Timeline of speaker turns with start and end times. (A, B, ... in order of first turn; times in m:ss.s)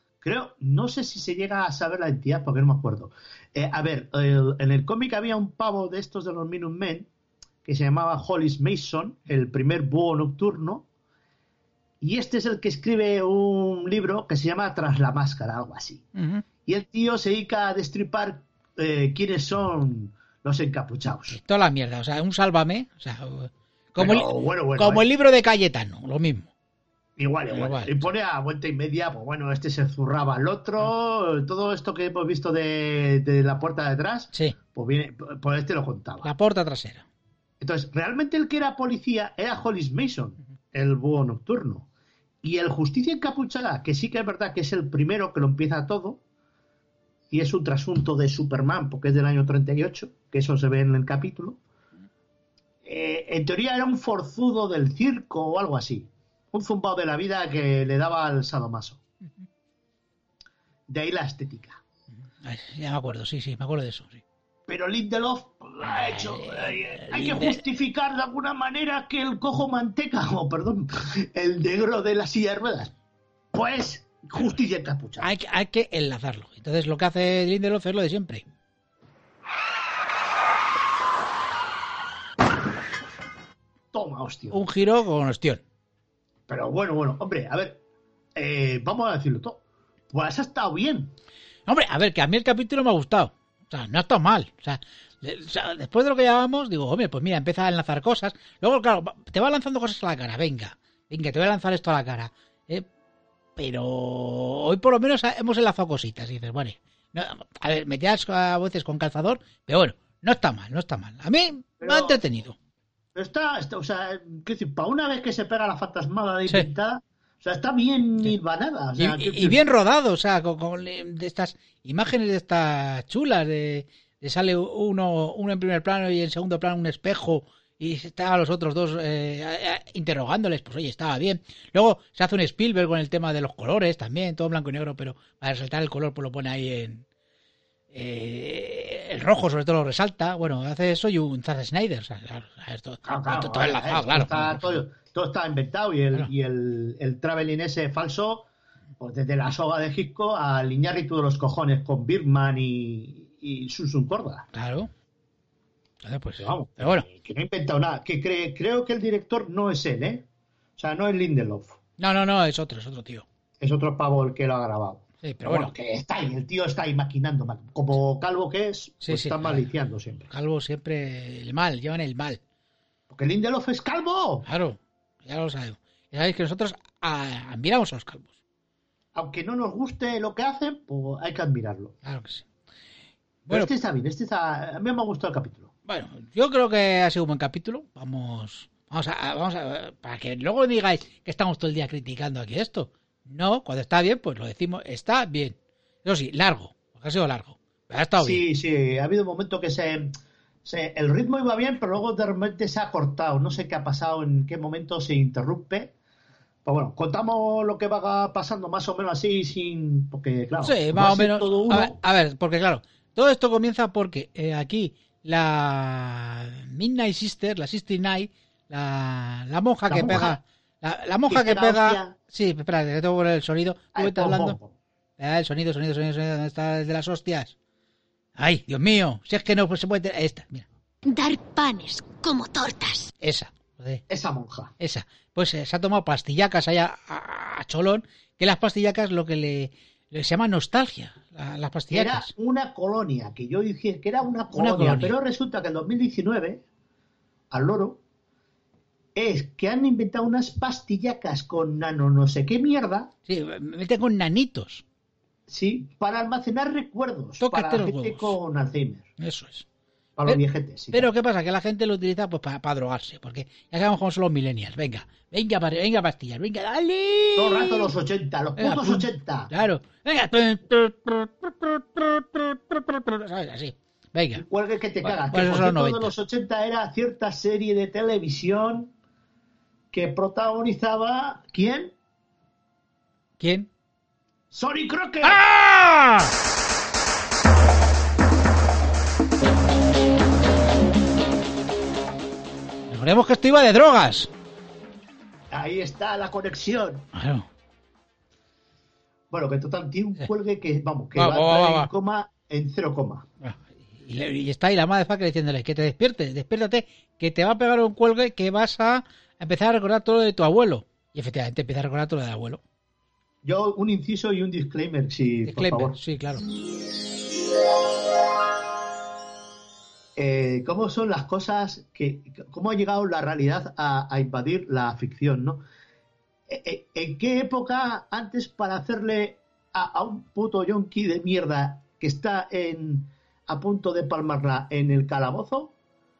0:00.2-0:07.1 A
0:07.6-0:10.9 A
0:12.0-0:16.1 A
0:16.2-0:16.4 B
0:16.6-0:21.4 A
0:21.3-0:26.5 B
0:24.0-0:25.1 A
0:27.2-0:36.3 A
0:27.5-0:28.1 B
0:36.2-0:37.0 B
0:37.6-0:41.9 A
0:42.4-0:46.2 A
0:47.3-0:51.6 A
0:52.8-0:59.0 A
1:00.9-1:01.8 A
1:02.4-1:04.2 B
1:04.7-1:12.9 A
1:05.8-1:07.6 B
1:13.5-1:15.3 A
1:15.2-1:18.4 B
1:23.9-1:24.6 A
1:24.5-1:25.6 B
1:26.5-1:27.8 A
1:28.4-1:31.2 A
1:31.7-1:42.9 B
1:43.6-1:52.6 B
1:51.8-1:52.2 A
1:53.2-1:59.6 A
1:59.0-2:17.0 B
2:17.9-2:24.8 B
2:23.0-2:28.5 A
2:29.0-2:34.5 A
2:34.5-2:34.9 B
2:36.0-2:37.1 B
2:36.4-2:40.3 A
2:40.8-2:41.8 A
2:42.0-2:43.3 B
2:43.6-2:50.3 A
2:45.2-2:45.7 B
2:49.0-2:49.7 B
2:50.3-2:52.4 B
2:53.1-2:54.5 A
2:54.4-2:58.3 B
2:59.2-3:02.0 A
3:02.0-3:02.5 B
3:03.5-3:03.7 B
3:03.5-3:05.7 A
3:05.9-3:18.4 B
3:18.2-3:25.9 A
3:26.6-3:32.0 A
3:30.6-3:44.6 B
3:39.9-3:40.4 A
3:41.3-3:42.2 A
3:44.0-3:44.8 A
3:45.2-3:47.5 B
3:48.4-3:50.6 B
3:51.0-3:53.1 C
3:53.2-3:54.0 B
3:54.1-3:54.7 A
3:54.8-4:02.3 B
4:01.9-4:06.6 A
4:04.5-4:05.2 B
4:07.5-4:08.0 A
4:09.2-4:13.1 A
4:13.3-4:14.8 B
4:15.5-4:19.1 A
4:17.4-4:18.4 B
4:19.2-4:19.7 B
4:20.2-4:21.1 A
4:20.9-4:27.9 B
4:27.4-4:29.5 A
4:28.6-4:34.4 B
4:34.4-4:38.9 A
4:35.0-4:36.1 B
4:39.9-4:42.0 A
4:43.4-4:43.7 B
4:44.5-4:45.4 A
4:45.2-4:46.3 B
4:52.9-4:54.3 B
4:55.5-4:57.1 A
4:57.1-4:57.5 B
4:59.3-5:03.3 A
5:01.2-5:01.9 B
5:03.4-5:12.6 B
5:13.4-5:16.0 A
5:15.4-5:16.4 B
5:20.2-5:25.6 A
5:26.5-5:35.8 A